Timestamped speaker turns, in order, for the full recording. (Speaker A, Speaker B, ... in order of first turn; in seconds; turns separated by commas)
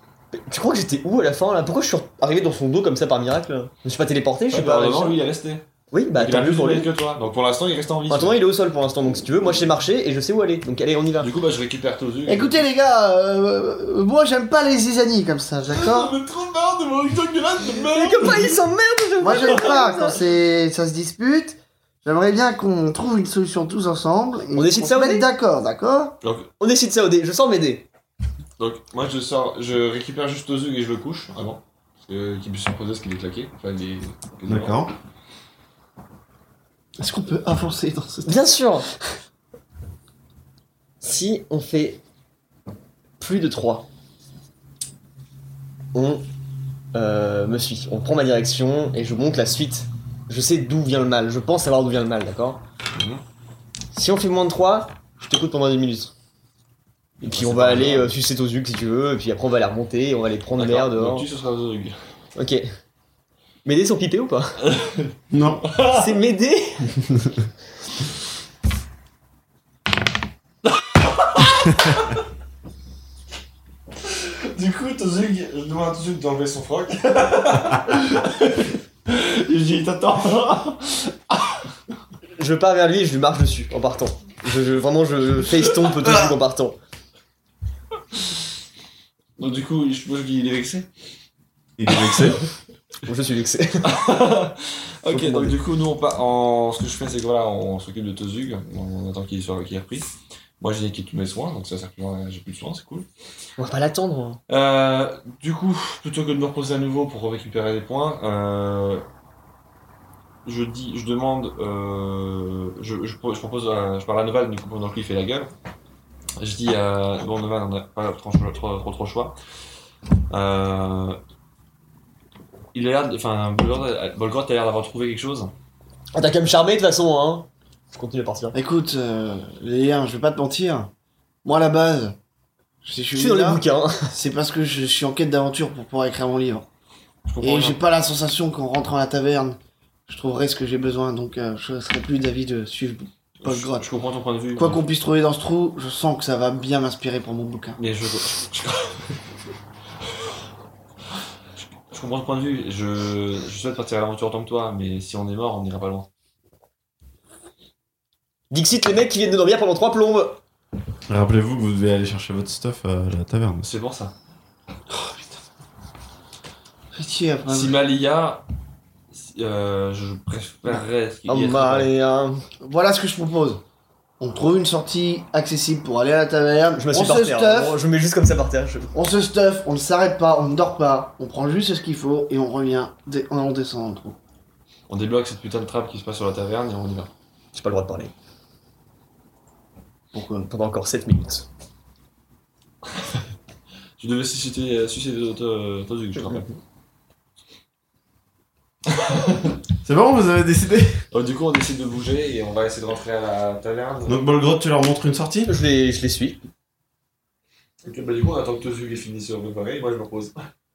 Speaker A: 0.3-5.2, Speaker B: 4.5-5.6, Speaker A: 5.9-6.9, Speaker B: 6.1-8.4, Speaker A: 8.1-11.3, Speaker B: 11.2-12.6, Speaker C: 12.2-16.1, Speaker B: 15.7-18.6, Speaker A: 17.9-20.2, Speaker C: 19.2-26.2, Speaker B: 19.4-19.6, Speaker A: 24.5-25.3, Speaker B: 26.2-26.5, Speaker A: 26.6-27.9, Speaker B: 28.6-34.9, Speaker D: 34.5-34.9, Speaker C: 37.0-38.5, Speaker A: 38.2-38.9, Speaker A: 41.0-42.0, Speaker A: 43.2-43.9, Speaker A: 45.9-46.2, Speaker A: 46.9-52.6, Speaker B: 52.9-53.2, Speaker A: 53.9-56.1, Speaker B: 57.2-58.1, Speaker A: 57.2-61.2, Speaker B: 60.5-62.0, Speaker A: 62.4-62.7, Speaker A: 63.6-64.6, Speaker B: 64.6-66.1, Speaker D: 65.3-65.7, Speaker A: 65.8-66.9, Speaker B: 70.8-72.1, Speaker B: 74.0-81.6, Speaker A: 82.4-86.8, Speaker B: 89.4-90.9, Speaker D: 91.8-92.4, Speaker A: 93.0-93.9, Speaker B: 93.8-103.1, Speaker A: 95.1-95.5, Speaker A: 103.6-104.4, Speaker B: 104.5-109.0, Speaker B: 110.4-115.5, Speaker B: 116.4-119.3, Speaker B: 120.3-121.2, Speaker B: 122.7-125.5, Speaker A: 126.1-128.6, Speaker C: 128.5-130.9, Speaker C: 131.4-132.2, Speaker C: 132.8-136.7, Speaker A: 133.1-134.1, Speaker B: 137.2-137.8, Speaker C: 137.4-143.9, Speaker B: 143.4-144.8, Speaker C: 144.6-147.8, Speaker B: 147.8-149.2, Speaker B: 151.6-156.1, Speaker A: 158.5-160.4, Speaker D: 161.1-163.7, Speaker B: 163.6-164.1, Speaker C: 164.9-165.4, Speaker C: 166.9-167.8, Speaker B: 167.5-168.4, Speaker B: 169.1-171.9, Speaker A: 171.3-172.4, Speaker C: 172.6-173.6, Speaker C: 174.2-177.8, Speaker A: 176.8-178.9, Speaker C: 178.9-184.2, Speaker B: 184.9-187.1, Speaker A: 187.5-188.1, Speaker C: 190.1-190.5, Speaker A: 190.5-191.5, Speaker B: 194.0-196.5, Speaker B: 198.9-199.5, Speaker D: 199.8-201.0, Speaker B: 201.1-204.2, Speaker D: 204.1-205.6, Speaker A: 205.5-206.4, Speaker B: 207.8-210.4